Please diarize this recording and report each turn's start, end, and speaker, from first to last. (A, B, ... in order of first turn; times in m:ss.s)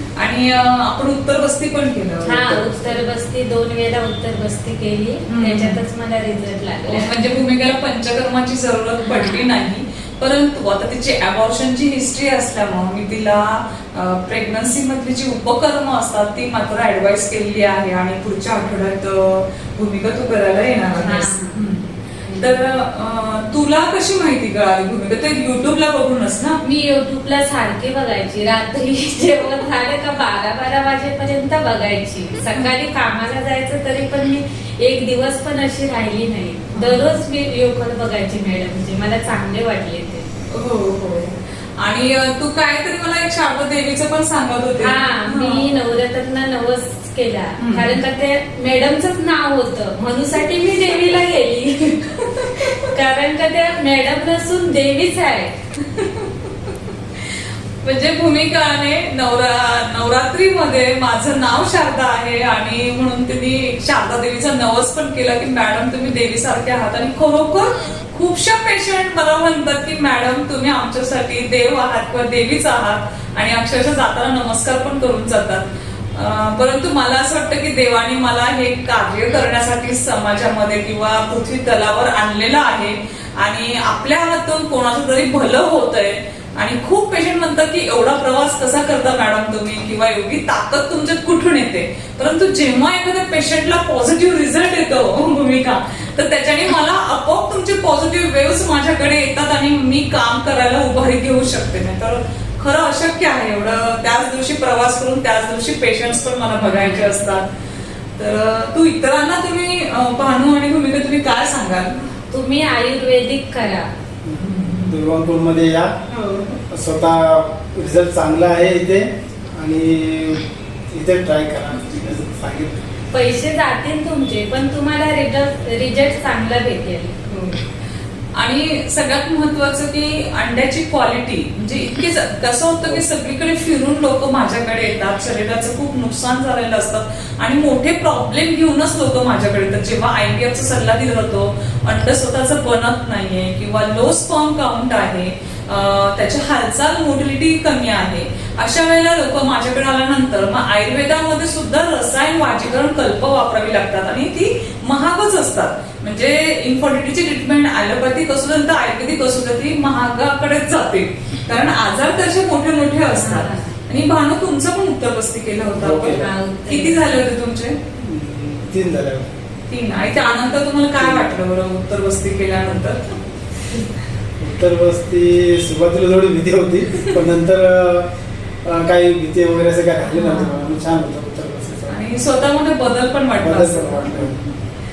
0:00.2-0:02.6 A
0:02.2-0:07.2 B
0:05.3-0:05.8 A
0:06.8-0:26.6 A
0:09.0-0:09.5 B
0:21.0-0:21.6 B
0:22.3-0:22.6 B
0:26.6-0:40.3 B
0:36.7-0:37.1 A
0:40.5-0:45.7 A
0:44.8-0:55.6 B
0:47.6-0:47.9 A
0:50.6-0:51.2 A
0:51.9-0:52.9 A
0:55.8-1:47.5 A
1:46.6-1:47.2 B
1:48.2-1:52.1 A
1:52.3-1:53.9 B
1:54.2-1:56.0 C
1:54.4-1:55.0 A
1:56.1-1:56.4 A
1:56.7-2:02.8 C
2:03.1-2:07.2 B
2:07.3-2:07.6 A
2:08.3-2:47.8 A
2:43.1-2:43.7 B
2:45.8-2:46.3 C
2:46.1-2:47.1 B
2:48.0-2:49.3 C
2:49.7-2:53.8 A
2:51.0-2:51.3 C
2:54.4-2:58.1 C
2:58.6-3:02.0 C
3:00.2-3:00.5 A
3:00.2-3:00.6 B
3:01.9-3:04.6 A
3:03.4-3:04.4 C